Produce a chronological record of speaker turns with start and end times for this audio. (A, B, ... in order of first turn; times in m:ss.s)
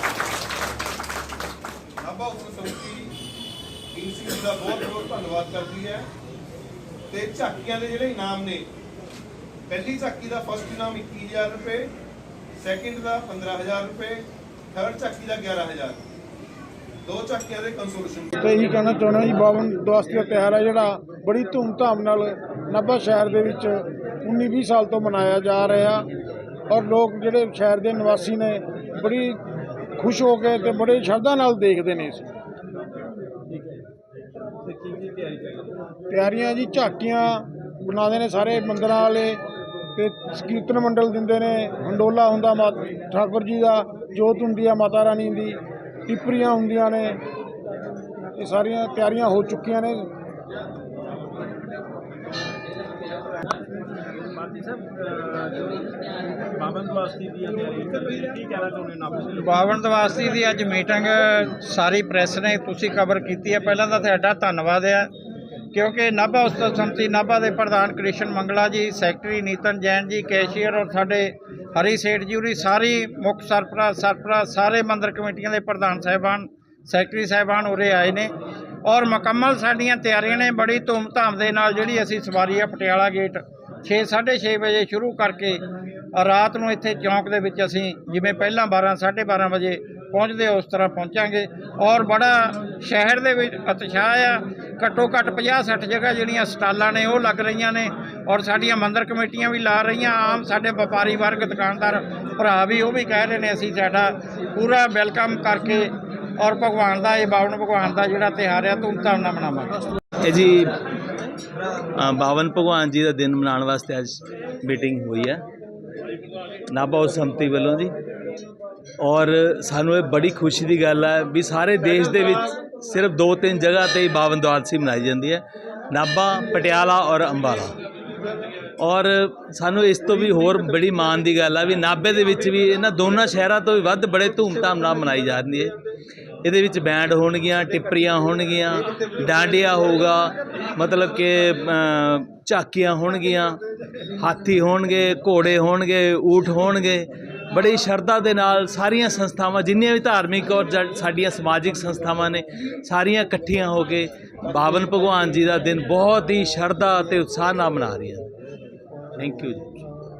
0:02.0-0:03.2 A
0:03.9-0:06.1 A
0:07.1-0:08.7 A
0:09.7-0:11.9 A
0:12.6-0:16.0 A
0:17.0-0:18.3 A
0:18.4-0:26.1 B
0:26.7-0:29.4 B
0:30.0-0:32.3 B
0:34.6-0:35.7 C
0:36.1-0:39.4 B
0:40.0-0:47.2 B
0:48.4-0:50.1 B
0:54.3-0:55.8 C
0:56.5-0:59.3 C
0:59.4-1:05.1 D
1:05.7-1:18.3 D
1:18.8-1:25.6 D
1:26.1-1:49.8 D
1:50.2-1:50.7 E
1:52.0-1:55.4 E
1:56.7-1:57.9 E
1:59.0-2:07.7 E
2:08.8-2:15.7 E
2:16.4-2:23.6 E
2:24.2-2:38.3 E
2:39.2-2:39.7 E